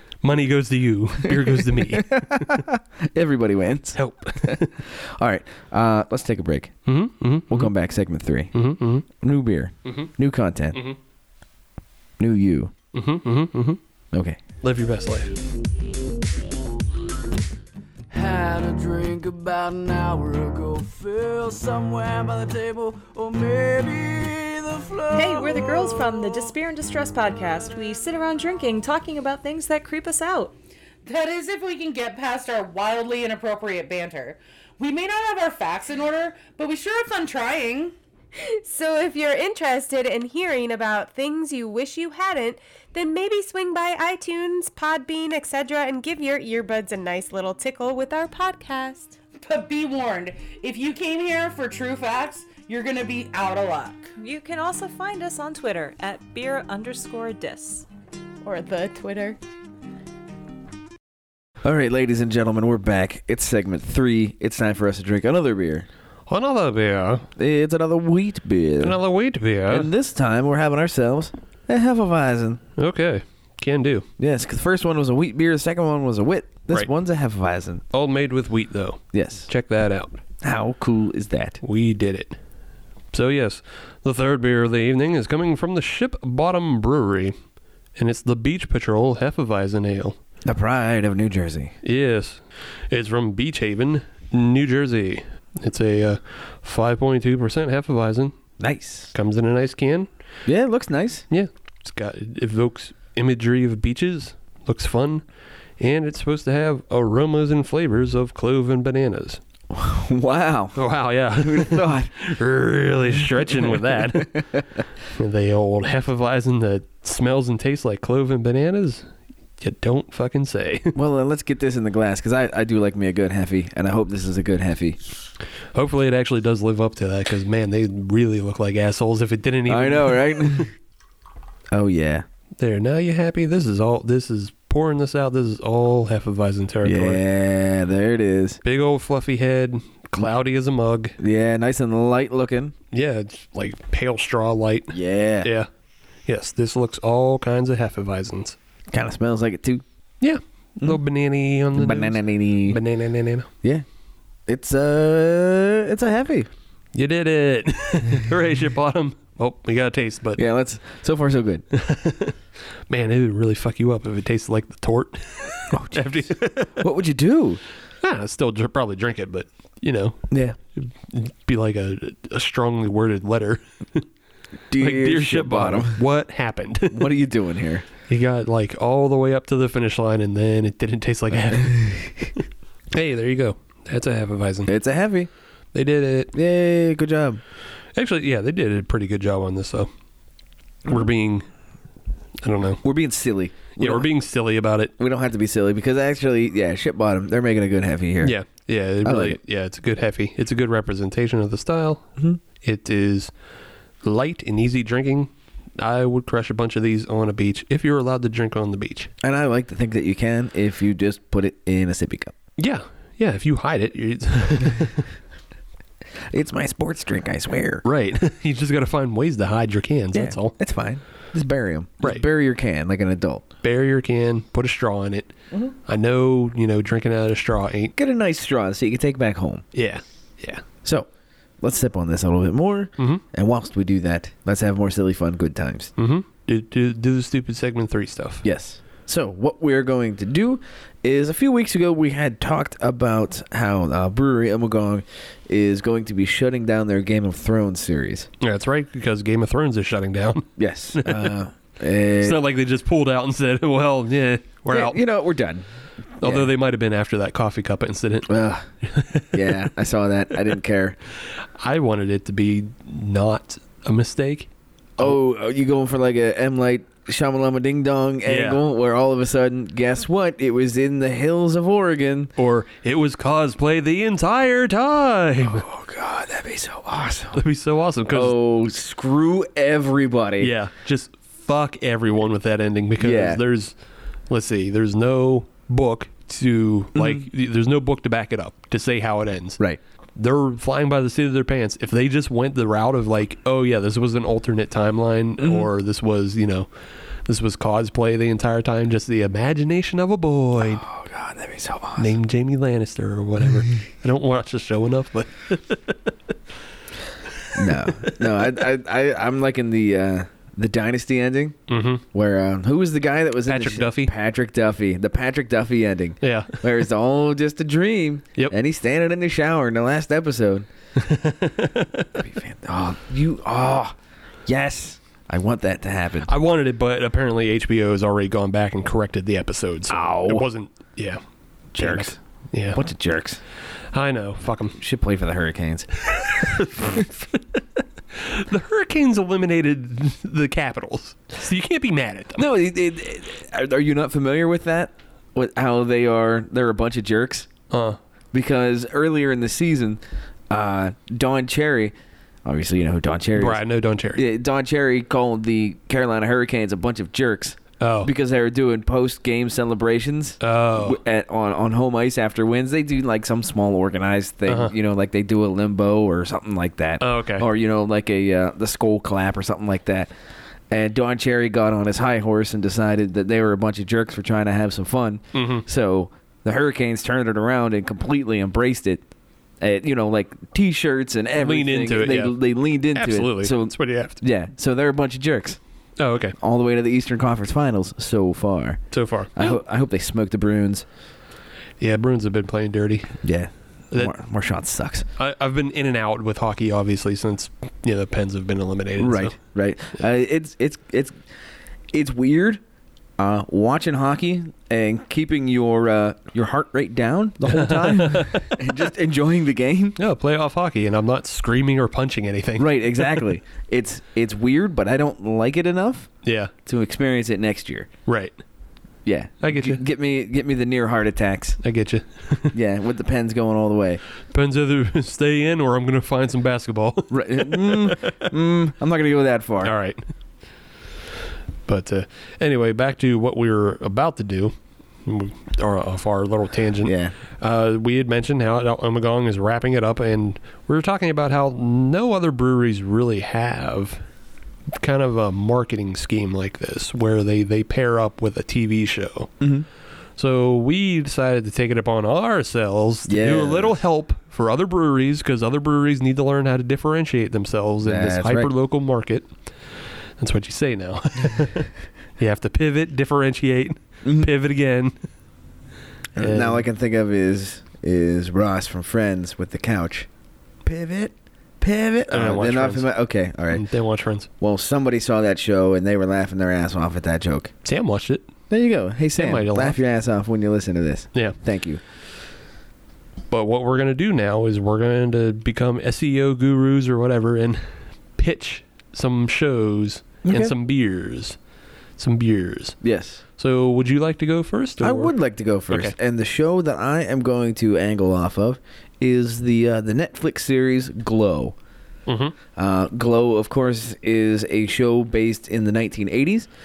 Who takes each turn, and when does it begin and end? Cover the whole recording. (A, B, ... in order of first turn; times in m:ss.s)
0:00.2-0:02.6 A
0:01.2-0:06.7 B
0:03.9-0:04.7 A
0:06.8-0:07.7 A
0:07.5-0:08.5 B
0:08.5-0:09.0 A
0:09.2-0:10.8 B
0:09.8-0:10.1 A
0:12.2-0:12.7 B
0:12.9-0:13.8 A
0:14.1-0:14.4 B
0:14.6-0:15.3 A
0:18.1-0:26.4 C
0:25.1-0:30.5 D
0:31.0-0:37.9 E
0:38.4-0:49.2 F
0:49.4-0:54.1 E
0:54.2-0:57.8 D
0:58.4-0:59.4 F
1:01.6-1:05.9 B
1:06.3-1:07.3 A
1:07.4-1:09.0 B
1:08.8-1:09.9 A
1:09.7-1:12.6 B
1:12.8-1:14.0 A
1:14.2-1:17.8 B
1:17.9-1:20.2 A
1:19.1-1:19.5 B
1:20.4-1:21.6 B
1:21.6-1:22.4 A
1:23.1-1:27.3 A
1:28.0-1:30.2 A
1:30.4-1:31.7 B
1:31.8-1:38.3 A
1:38.6-1:39.1 B
1:39.1-1:40.1 A
1:40.4-1:41.2 B
1:41.3-1:45.2 A
1:45.8-1:49.4 A
1:49.7-1:50.8 B
1:50.7-1:54.6 A
1:51.4-1:52.1 B
1:53.5-1:54.6 B
1:55.1-1:59.1 A
1:59.6-2:00.9 A
2:00.9-2:05.0 B
2:05.7-2:10.7 A
2:09.7-2:10.7 B
2:11.7-2:12.2 B
2:12.6-2:17.2 A
2:16.8-2:18.6 B
2:18.6-2:21.2 A
2:21.2-2:22.7 B
2:22.9-2:25.7 A
2:24.9-2:25.5 B
2:26.2-2:28.6 A
2:28.9-2:29.8 B
2:30.2-2:33.5 A
2:31.8-2:32.8 B
2:34.5-2:36.5 B
2:36.9-2:40.4 A
2:40.4-2:41.6 B
2:41.7-2:42.4 A
2:42.9-2:46.8 A
2:45.7-2:46.1 B
2:46.7-2:47.6 B
2:48.0-2:54.0 A
2:50.3-2:50.6 B
2:54.7-2:56.0 B
2:54.8-2:57.1 A
2:56.9-2:57.8 B
2:58.1-3:04.7 A
3:01.7-3:02.1 B
3:04.7-3:05.3 B
3:05.7-3:06.3 A
3:06.3-3:07.4 B
3:07.9-3:09.9 A
3:10.8-3:11.5 A
3:12.4-3:12.8 A
3:12.8-3:14.0 B
3:13.8-3:14.9 A
3:15.0-3:18.3 B
3:18.2-3:23.3 A
3:19.0-3:19.4 B
3:24.0-3:29.1 A
3:29.2-3:32.3 B
3:32.6-3:35.0 A
3:36.3-3:37.8 B
3:37.8-3:40.5 A
3:40.1-3:43.4 B
3:43.6-3:47.9 A
3:48.0-3:49.6 B
3:49.7-3:50.6 A
3:51.6-3:55.9 B
3:56.0-3:58.4 A
3:58.4-4:08.3 B
4:08.4-4:11.3 A
4:10.6-4:12.4 B
4:12.2-4:15.0 A
4:14.7-4:15.6 B
4:16.2-4:16.5 B
4:16.2-4:18.3 A
4:18.3-4:18.7 B
4:18.8-4:19.7 A
4:19.3-4:21.0 B
4:21.6-4:25.2 A
4:25.0-4:32.3 B
4:28.2-4:28.6 A
4:32.4-4:35.6 A
4:35.4-4:37.4 B
4:37.3-4:38.4 A
4:38.1-4:40.5 B
4:40.4-4:43.7 A
4:43.0-4:43.4 B
4:44.3-4:49.6 A
4:46.9-4:47.2 B
4:50.2-4:56.7 A
4:55.4-4:55.7 B
4:57.2-5:00.8 A
5:00.6-5:02.1 B
5:02.0-5:06.1 A
5:07.3-5:08.5 A
5:07.5-5:11.6 B
5:11.7-5:12.0 A
5:12.1-5:20.7 B
5:13.5-5:14.1 A
5:16.2-5:16.6 A
5:21.0-5:22.2 A
5:22.2-5:23.9 B
5:24.4-5:26.3 B
5:26.2-5:31.2 A
5:29.9-5:30.4 B
5:31.7-5:32.8 A
5:31.8-5:32.2 B
5:32.7-5:33.4 B
5:33.9-5:34.8 A
5:34.8-5:35.9 B
5:36.0-5:42.4 A
5:42.4-5:47.5 B
5:47.7-5:48.0 A
5:48.3-5:51.9 B
5:52.4-5:53.6 B
5:53.4-5:54.2 A
5:54.1-6:10.1 B
5:57.8-5:58.1 A
6:00.4-6:01.0 A
6:04.5-6:04.7 A
6:07.0-6:07.4 A
6:10.7-6:19.0 B
6:15.3-6:15.6 A
6:19.6-6:25.6 B
6:21.4-6:22.4 A
6:22.9-6:24.2 A
6:26.0-6:26.4 A
6:26.4-6:28.8 B
6:28.9-6:29.6 A
6:29.3-6:30.8 B
6:31.8-6:33.2 A
6:33.2-6:35.0 B
6:35.2-6:39.3 A
6:39.0-6:41.1 B
6:41.9-6:42.6 B
6:43.2-6:50.0 B
6:47.5-6:48.8 A
6:50.0-6:53.2 A
6:52.6-6:56.1 B
6:56.2-6:56.5 A
6:56.6-6:57.9 B
6:58.0-6:58.4 A
6:59.0-7:01.6 B
6:59.4-6:59.8 A
7:01.6-7:02.5 A
7:02.5-7:04.0 B
7:04.3-7:08.3 A
7:07.1-7:09.7 B
7:09.6-7:10.1 A
7:11.7-7:24.0 A
7:16.8-7:17.1 B
7:24.7-7:29.3 A
7:29.4-7:29.6 B
7:30.2-7:39.3 A
7:33.1-7:33.8 B
7:37.8-7:38.5 B
7:40.2-7:45.0 A
7:44.0-7:44.3 B
7:46.2-7:50.1 B
7:46.2-7:46.6 A
7:50.6-7:53.6 B
7:52.1-7:52.9 A
7:53.5-7:54.3 A
7:54.4-7:57.5 B
7:57.6-7:58.3 A
7:58.5-8:01.8 B
7:59.2-7:59.8 A
8:03.3-8:11.4 A
8:10.2-8:10.5 B
8:12.0-8:12.8 A
8:12.8-8:13.2 B
8:13.4-8:15.1 A
8:14.8-8:21.5 B
8:15.7-8:15.9 A
8:22.1-8:22.4 A
8:22.6-8:26.5 B